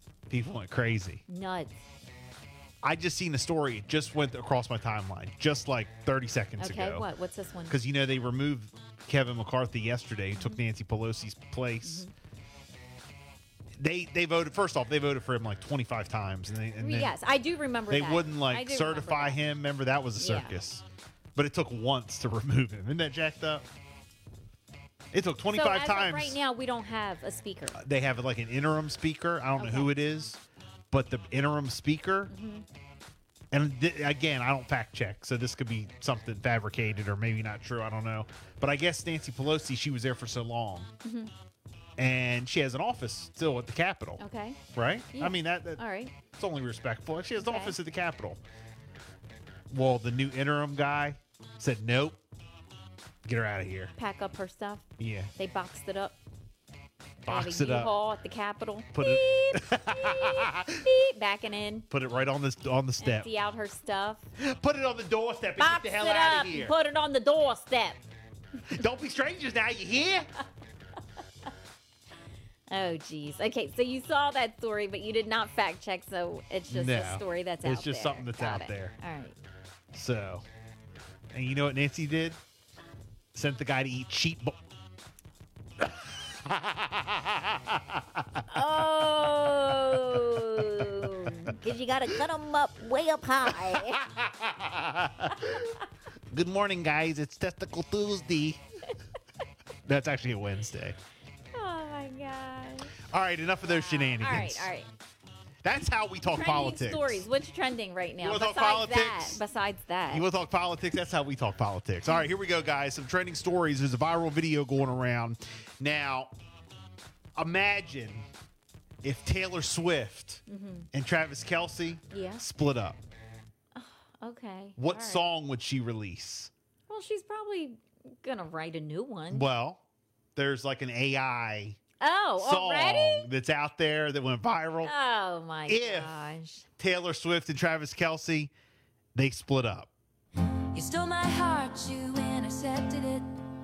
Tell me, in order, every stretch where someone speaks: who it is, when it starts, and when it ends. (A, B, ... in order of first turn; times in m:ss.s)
0:00.3-0:01.2 A
0:01.3-0:01.8 B
0:02.8-0:07.1 A
0:06.6-0:07.8 B
0:07.7-0:12.0 A
0:10.3-0:10.6 B
0:11.8-0:12.1 B
0:13.8-0:17.1 A
0:16.8-0:19.4 B
0:17.9-0:20.8 A
0:20.2-0:20.6 B
0:21.3-0:23.6 A
0:25.1-0:26.4 A
0:25.5-0:27.8 B
0:27.7-0:32.3 A
0:29.6-0:29.9 B
0:32.3-0:32.6 B
0:33.5-0:40.9 A
0:41.0-0:41.3 B
0:42.0-0:44.2 A
0:44.2-0:44.6 B
0:44.7-0:48.4 A
0:45.1-0:46.1 B
0:47.4-0:47.8 B
0:49.7-0:52.2 A
0:53.2-0:53.9 A
0:54.0-0:56.2 B
0:55.0-0:55.3 A
0:57.2-0:57.9 A
0:57.2-1:01.9 B
0:58.9-1:00.8 A
1:01.9-1:03.3 A
1:03.0-1:04.2 B
1:04.4-1:06.8 A
1:05.6-1:08.0 B
1:08.7-1:10.3 A
1:12.7-1:19.4 B
1:16.7-1:18.9 A
1:19.9-1:20.4 A
1:21.3-1:22.4 A
1:23.3-1:24.6 A
1:25.8-1:28.4 A
1:28.5-1:34.0 B
1:33.5-1:35.7 A
1:36.3-1:38.6 A
1:39.8-1:41.0 A
1:41.5-1:42.9 B
1:43.1-1:44.7 A
1:43.6-1:44.9 B
1:45.6-1:47.2 A
1:46.2-1:50.3 B
1:48.2-1:49.4 A
1:50.1-1:56.3 A
1:57.4-1:58.2 A
1:59.0-2:00.4 A
2:00.5-2:00.9 B
2:00.9-2:03.0 A
2:02.1-2:02.4 B
2:03.7-2:05.2 B
2:04.8-2:06.5 A
2:06.9-2:09.5 B
2:09.3-2:09.8 A
2:10.3-2:11.8 A
2:12.0-2:13.3 B
2:12.4-2:14.9 A
2:14.8-2:16.7 B
2:15.6-2:16.2 A
2:16.8-2:18.5 A
2:19.1-2:19.9 A
2:20.7-2:23.3 C